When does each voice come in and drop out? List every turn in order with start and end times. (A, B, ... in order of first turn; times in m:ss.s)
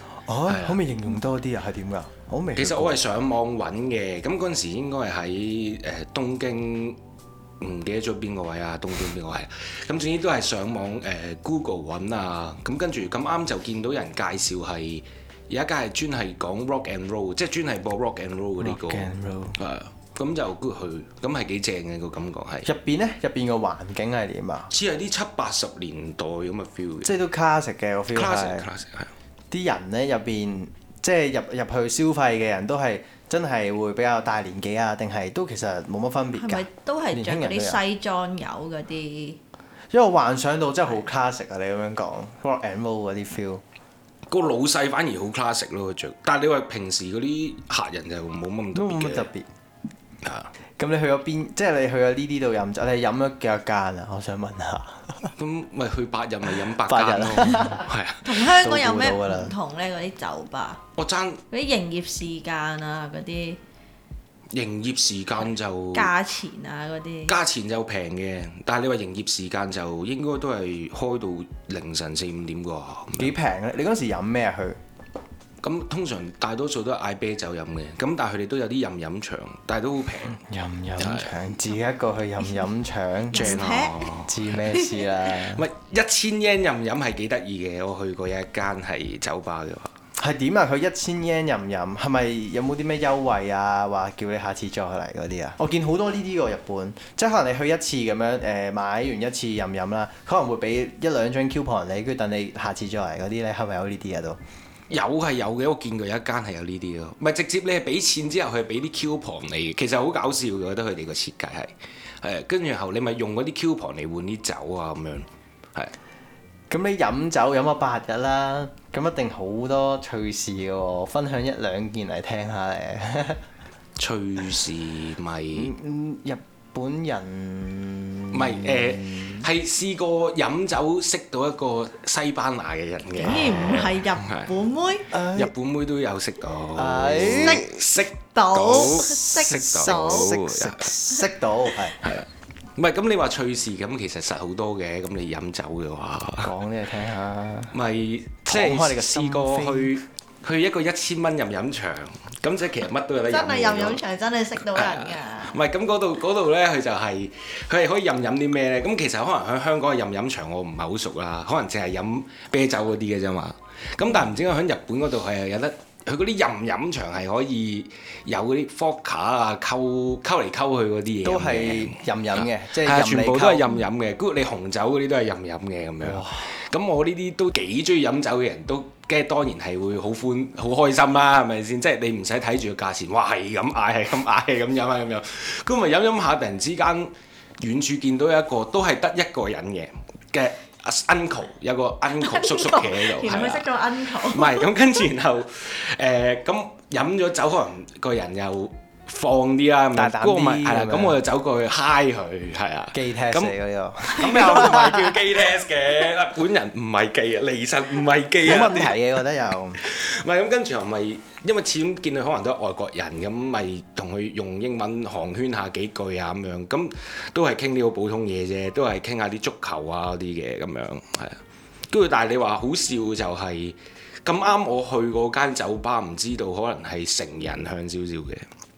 0:00.2-0:03.0 A
0:00.5-0:00.8 B
0:02.5-0:07.0 B
0:07.6-0:22.7 B
0:18.6-0:19.6 A
0:22.6-0:24.7 A
0:24.7-0:27.1 B
0:27.0-0:28.7 A
0:28.1-0:29.1 B
0:29.5-0:37.8 A
0:36.4-0:39.4 C
0:39.9-0:43.6 A
0:44.3-0:49.3 B
0:48.7-0:49.5 A
0:50.2-0:50.5 B
0:50.8-0:55.3 A
0:55.4-0:58.3 B
0:56.6-0:57.9 A
0:58.2-1:00.8 C
0:58.5-0:59.5 A
1:01.0-1:01.4 B
1:01.5-1:03.6 C
1:04.5-1:06.1 B
1:05.9-1:07.3 C
1:07.2-1:13.3 B
1:13.2-1:14.8 A
1:15.6-1:20.4 B
1:20.3-1:23.6 A
1:21.0-1:21.3 B
1:23.3-1:24.1 C
1:23.3-1:24.5 B
1:24.2-1:25.6 A
1:24.7-1:25.1 C
1:25.5-1:29.9 B
1:30.2-1:44.4 A
1:44.9-1:55.9 B
1:56.7-2:03.4 A
2:04.0-2:05.7 B
2:05.5-2:09.5 A
2:08.3-2:14.5 B
2:13.2-2:15.1 C
2:15.1-2:15.5 A
2:15.3-2:20.9 B
2:16.7-2:17.7 A
2:17.4-2:20.3 C
2:18.9-2:22.0 A
2:22.0-2:26.5 B
2:26.4-2:27.7 A
2:27.7-2:34.0 B
2:28.4-2:29.9 A
2:33.3-2:35.6 C
2:34.6-3:13.7 B
2:51.2-2:53.7 A
2:56.0-2:56.5 A
3:12.2-3:14.7 C
3:14.2-3:23.5 B
3:19.9-3:21.2 A
3:22.9-3:25.1 A
3:24.0-3:28.9 B
3:28.4-3:29.8 A
3:29.8-3:41.4 B
3:41.9-3:48.4 B